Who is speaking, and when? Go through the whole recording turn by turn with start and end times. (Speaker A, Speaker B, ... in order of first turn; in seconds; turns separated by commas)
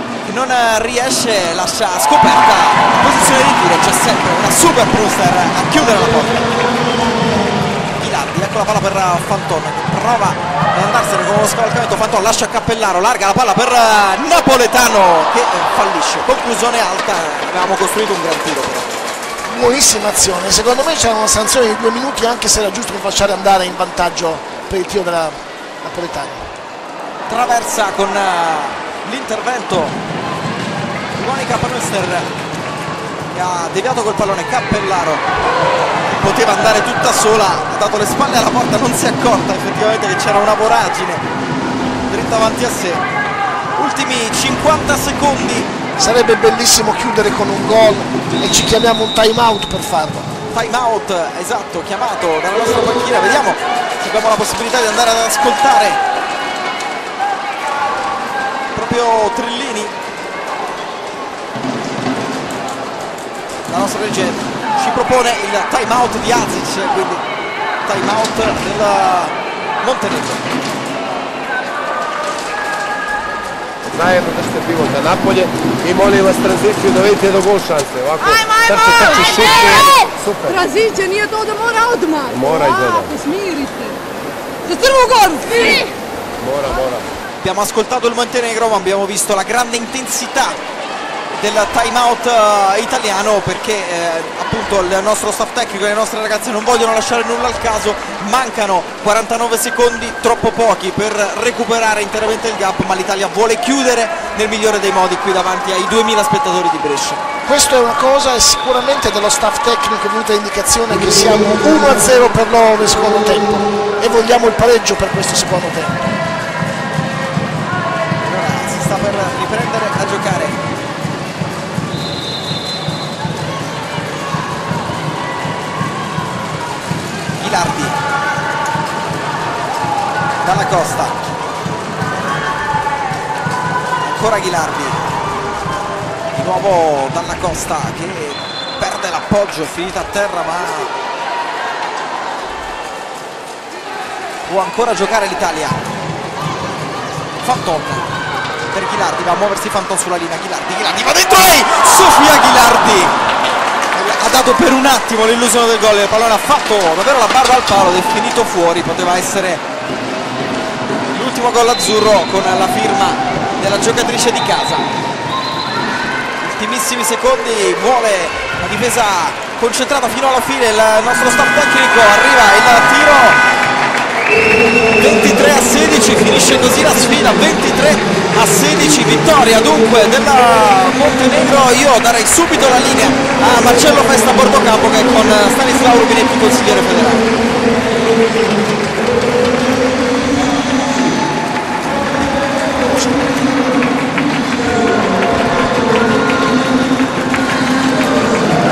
Speaker A: 0.2-6.5, Speaker A: 8.0-19.0, Speaker B: 19.4-26.4, Speaker A: 27.3-29.9, Speaker A: 31.1-32.3, Speaker A: 33.3-35.2, Speaker A: 36.1-41.2, Speaker A: 42.1-43.0, Speaker A: 43.8-45.7, Speaker B: 46.0-50.3, Speaker A: 50.5-56.0, Speaker A: 58.7-59.9, Speaker A: 63.7-67.2, Speaker A: 67.8-70.4, Speaker C: 73.8-80.6, Speaker D: 78.2-84.0, Speaker C: 82.3-83.1, Speaker D: 84.6-85.9, Speaker C: 86.4-87.0, Speaker A: 87.4-90.6, Speaker A: 91.4-107.2, Speaker B: 107.4-116.2, Speaker A: 118.2-120.6, Speaker A: 127.4-128.0, Speaker A: 130.4-131.1, Speaker A: 134.0-135.0, Speaker A: 136.3-140.9, Speaker A: 144.4-145.8, Speaker A: 147.4-148.1, Speaker A: 148.7-153.1, Speaker A: 153.9-159.6, Speaker A: 161.1-164.8, Speaker A: 166.4-173.4, Speaker A: 175.0-187.3